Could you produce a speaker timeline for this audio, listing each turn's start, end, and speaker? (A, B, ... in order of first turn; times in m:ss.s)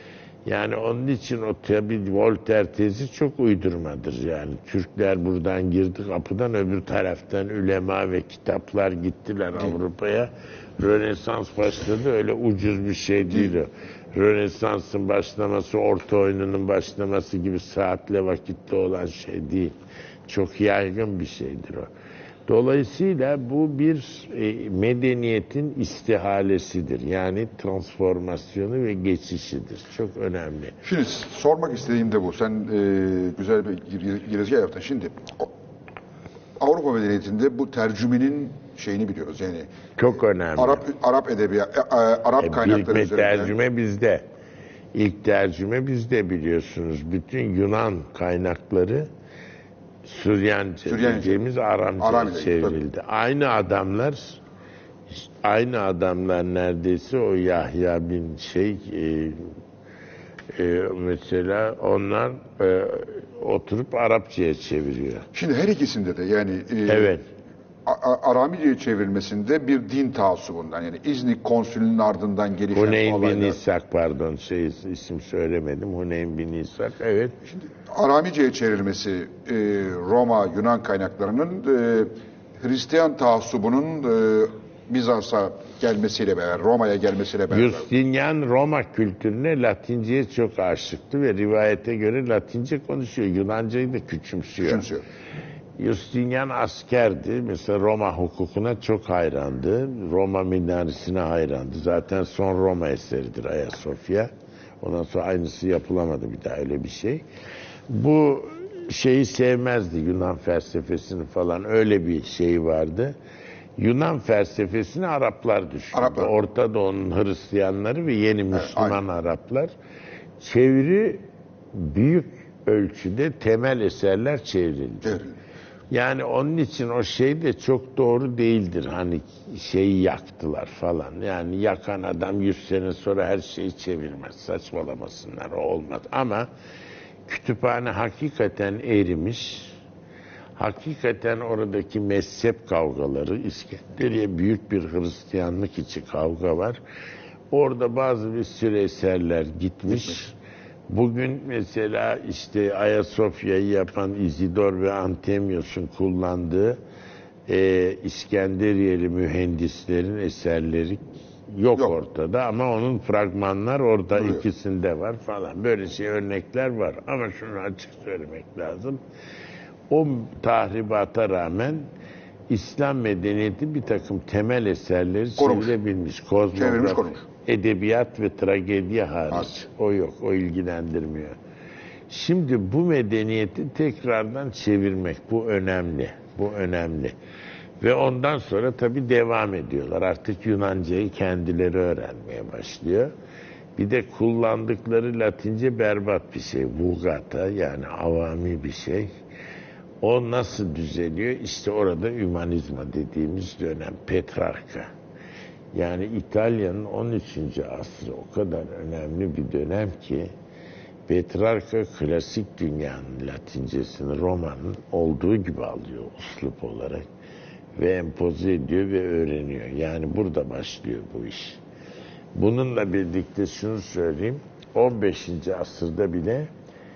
0:00.4-0:19.8 A
0:20.3-0:21.9 A
0:22.5-0:30.8 A
0:30.8-0:35.5 B
0:36.6-0:39.7 B
0:40.0-0:40.9 A
0:40.6-0:43.6 B
0:42.4-0:44.3 A
0:44.9-0:49.1 A
0:50.0-0:54.4 A
0:50.9-0:51.4 B
0:52.0-0:52.8 B
0:55.1-0:59.6 A
1:00.5-1:05.3 A
1:05.3-1:07.1 B
1:06.9-1:07.2 A
1:07.9-1:13.6 B
1:12.7-1:17.4 A
1:17.7-1:27.9 B
1:27.5-1:34.9 A
1:34.6-1:35.0 B
1:35.8-1:47.2 A
1:47.9-1:53.2 A
1:53.8-1:59.7 A
1:55.9-1:56.3 B
1:58.5-1:59.0 B
2:00.4-2:05.2 A
2:05.0-2:05.3 B
2:05.9-2:16.5 A
2:17.3-2:19.8 A
2:20.6-2:26.8 A
2:27.5-2:30.4 A
2:29.9-2:30.2 B
2:30.9-2:36.8 A
2:37.5-2:49.0 A
2:44.2-2:44.4 B
2:49.9-2:51.9 A
2:52.5-3:01.4 A
2:55.4-2:55.8 B
2:56.5-2:57.2 B
3:02.1-3:07.2 A
3:07.8-3:13.1 A
3:13.8-3:19.1 A
3:20.0-3:24.9 A
3:25.7-3:30.3 A
3:31.1-3:37.1 A
3:37.8-3:41.6 A
3:42.4-3:46.5 A